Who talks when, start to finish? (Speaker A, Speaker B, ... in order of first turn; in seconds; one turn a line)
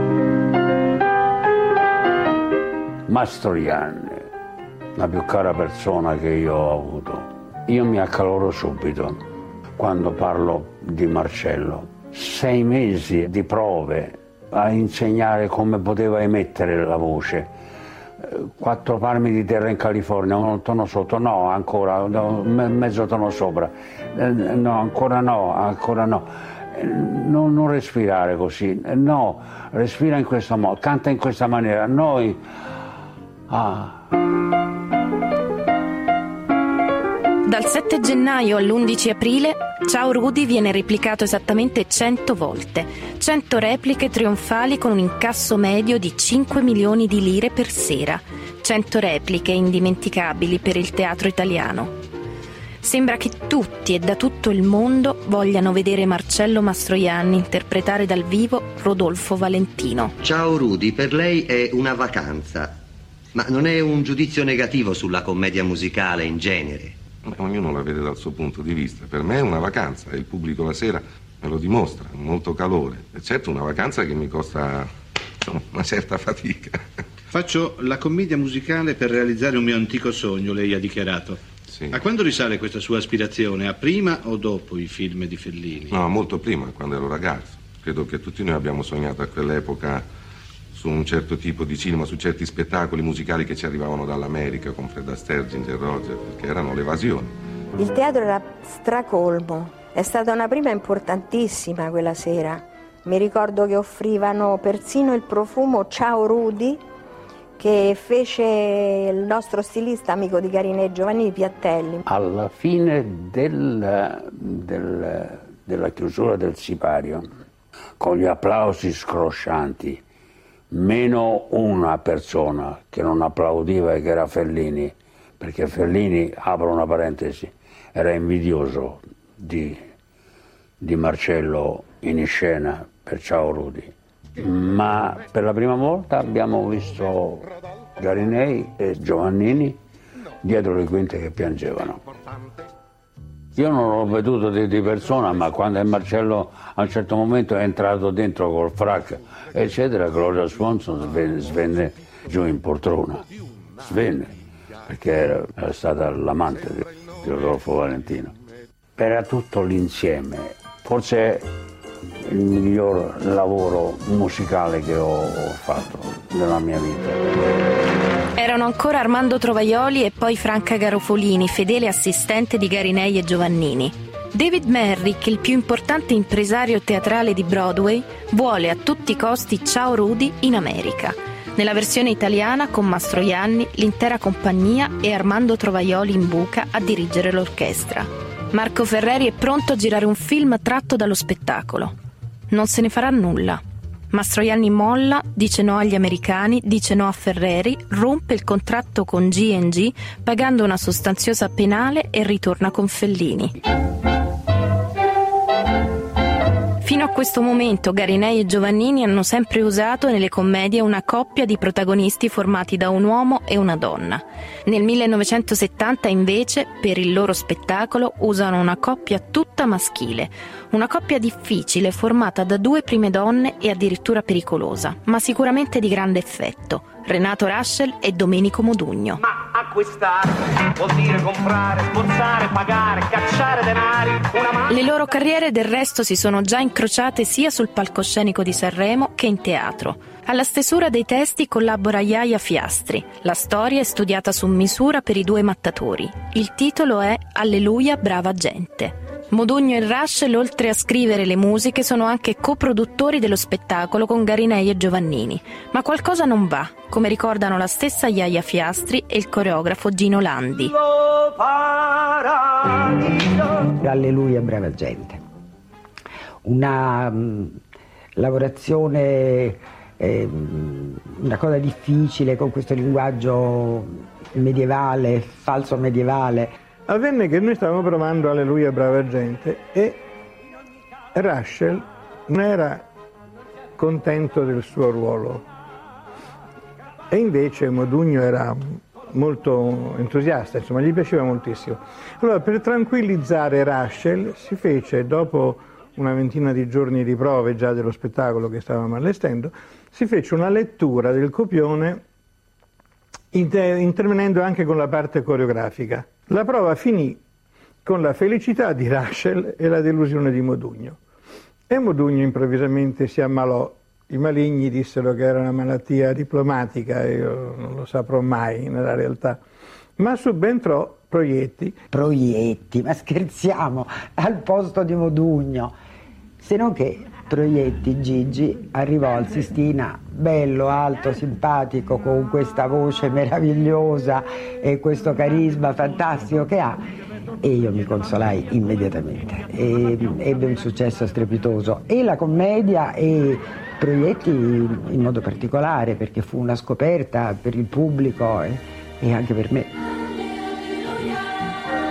Speaker A: 3.1-4.3
Speaker A: 5.0-9.2
Speaker A: 9.8-17.5
Speaker A: 18.2-32.4
Speaker A: 33.5-34.0
Speaker B: 37.4-51.9
Speaker B: 52.8-60.1
Speaker C: 60.2-62.7
Speaker C: 63.3-67.0
Speaker D: 67.2-74.9
Speaker D: 75.4-76.9
Speaker E: 77.3-86.0
Speaker D: 81.7-82.0
Speaker D: 85.9-90.0
Speaker D: 90.7-97.3
Speaker F: 97.8-106.8
Speaker F: 107.6-112.0
Speaker A: 112.0-117.3
Speaker A: 118.0-120.0
Speaker A: 120.7-129.8
Speaker A: 130.8-139.8
Speaker A: 140.4-142.0
Speaker A: 143.5-153.2
Speaker A: 153.8-154.3
Speaker A: 154.8-158.3
Speaker A: 159.0-161.5
Speaker A: 162.2-167.2
Speaker B: 168.3-191.9
Speaker B: 192.5-203.5
Speaker B: 206.8-229.2
Speaker G: 229.2-234.7
Speaker B: 234.7-260.7
Speaker H: 263.8-265.2
Speaker H: 266.4-267.6
Speaker H: 268.2-276.5
Speaker I: 276.9-280.0
Speaker I: 281.1-282.9
Speaker I: 283.8-285.4
Speaker I: 287.1-302.0
Speaker I: 303.3-307.2
Speaker I: 307.8-311.0
Speaker I: 311.7-319.4
Speaker I: 320.0-321.7
Speaker H: 321.9-325.7
Speaker H: 326.4-336.8
Speaker H: 337.4-349.7